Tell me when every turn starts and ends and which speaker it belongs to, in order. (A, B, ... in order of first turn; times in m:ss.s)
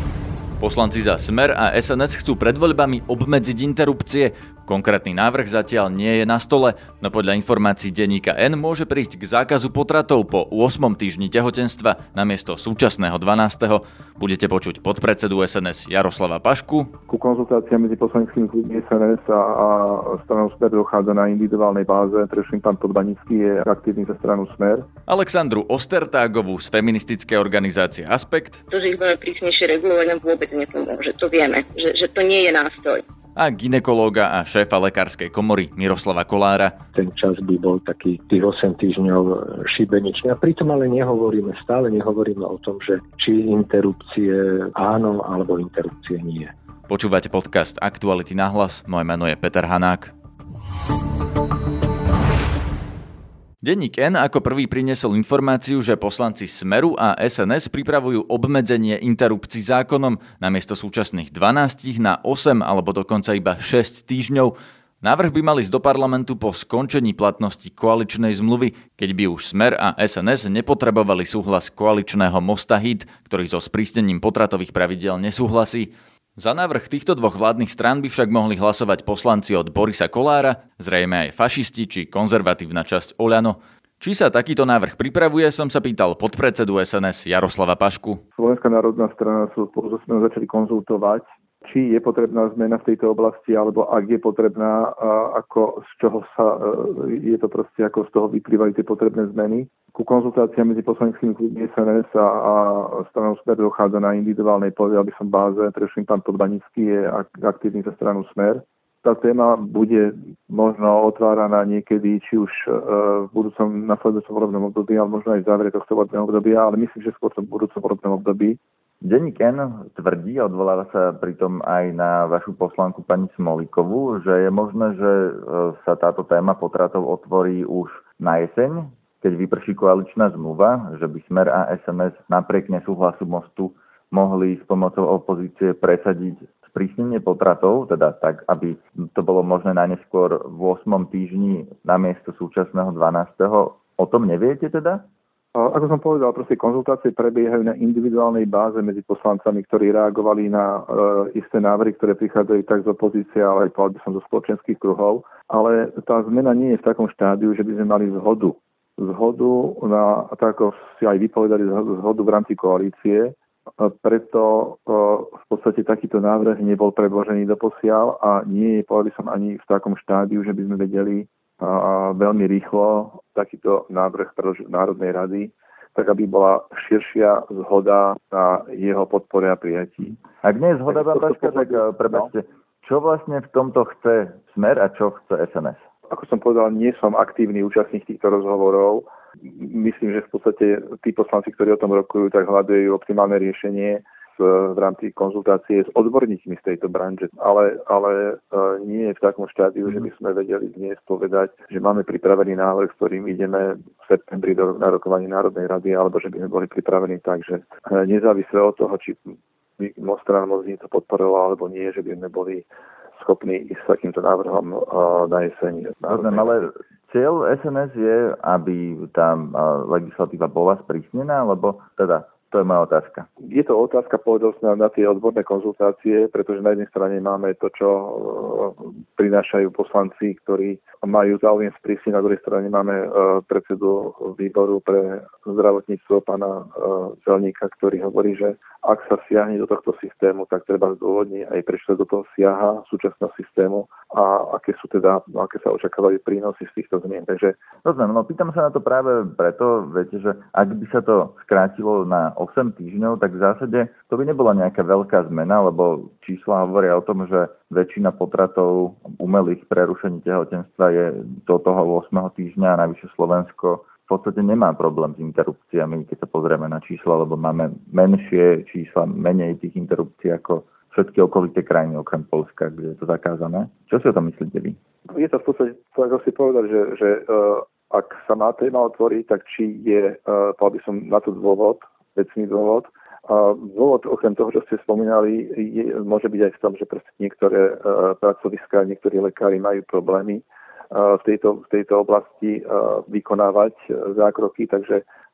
0:00.6-0:16.9 A
0:17.1-0:24.9 B
0:25.1-0:28.6 A
0:28.7-0:33.0 C
0:33.4-0:36.8 A
0:36.9-0:46.5 D
0:46.9-0:50.1 A
0:53.6-1:28.2 A
1:28.4-1:58.6 B
1:59.0-2:25.0 E
2:25.5-3:00.2 B
3:00.4-3:05.8 E
3:00.9-3:02.2 B
3:06.1-3:29.2 B
3:29.8-3:32.6 B
3:33.2-3:36.6 B
3:36.1-3:43.3 E
3:43.5-4:07.6 B
4:07.8-4:34.8 E
4:35.1-4:55.0 B